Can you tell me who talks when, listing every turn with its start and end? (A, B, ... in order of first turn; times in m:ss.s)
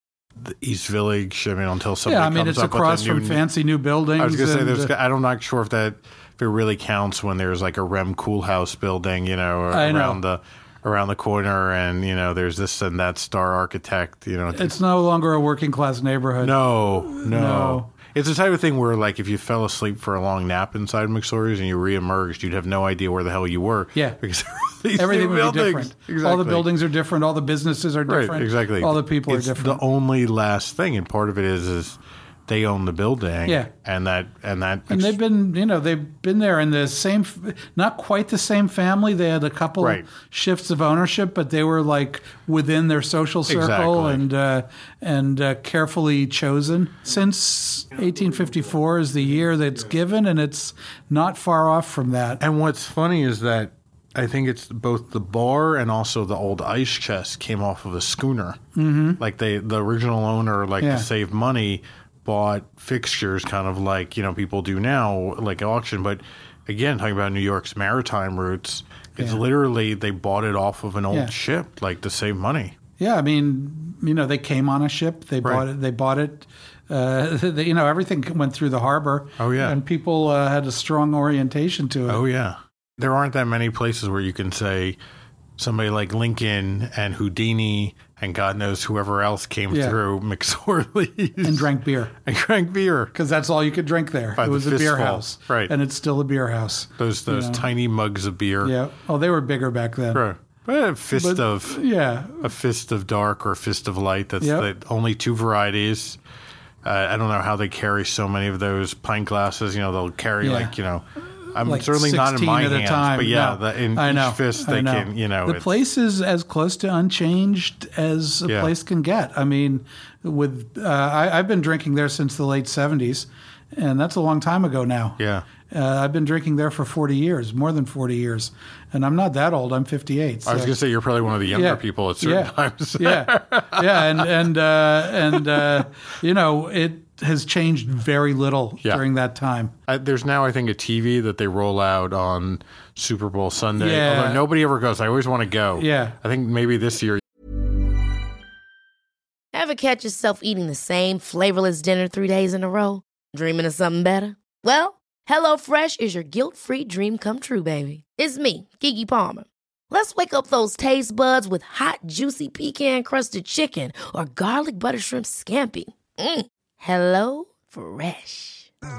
0:00.4-0:03.4 A
0:02.0-0:04.9 B
0:04.2-0:14.8 A
0:09.7-0:10.2 B
0:14.5-0:17.9 B
0:16.4-0:26.7 A
0:24.9-0:29.8 B
0:28.1-0:35.2 A
0:33.4-0:33.7 B
0:34.9-0:52.4 B
0:39.8-0:40.1 A
0:43.5-0:44.2 A
0:52.4-0:58.6 A
0:58.7-0:59.2 B
0:59.2-1:12.8 A
1:00.8-1:01.1 B
1:13.0-1:22.2 B
1:19.4-1:19.8 A
1:22.1-1:25.0 A
1:25.6-1:33.1 A
1:29.7-1:30.0 B
1:31.4-1:32.1 B
1:33.1-1:37.6 B
1:34.4-1:35.7 A
1:37.0-1:38.7 A
1:38.6-1:40.2 B
1:40.1-1:41.8 A
1:41.1-1:42.4 B
1:42.4-1:46.2 A
1:44.4-1:44.7 B
1:46.8-1:55.7 A
1:50.4-1:50.7 B
1:51.6-2:10.8 B
2:05.2-2:05.4 A
2:10.4-2:14.3 A
2:11.5-2:19.7 B
2:15.2-2:15.8 A
2:19.9-2:27.2 A
2:23.8-2:24.4 B
2:25.8-2:26.2 B
2:29.5-2:48.7 C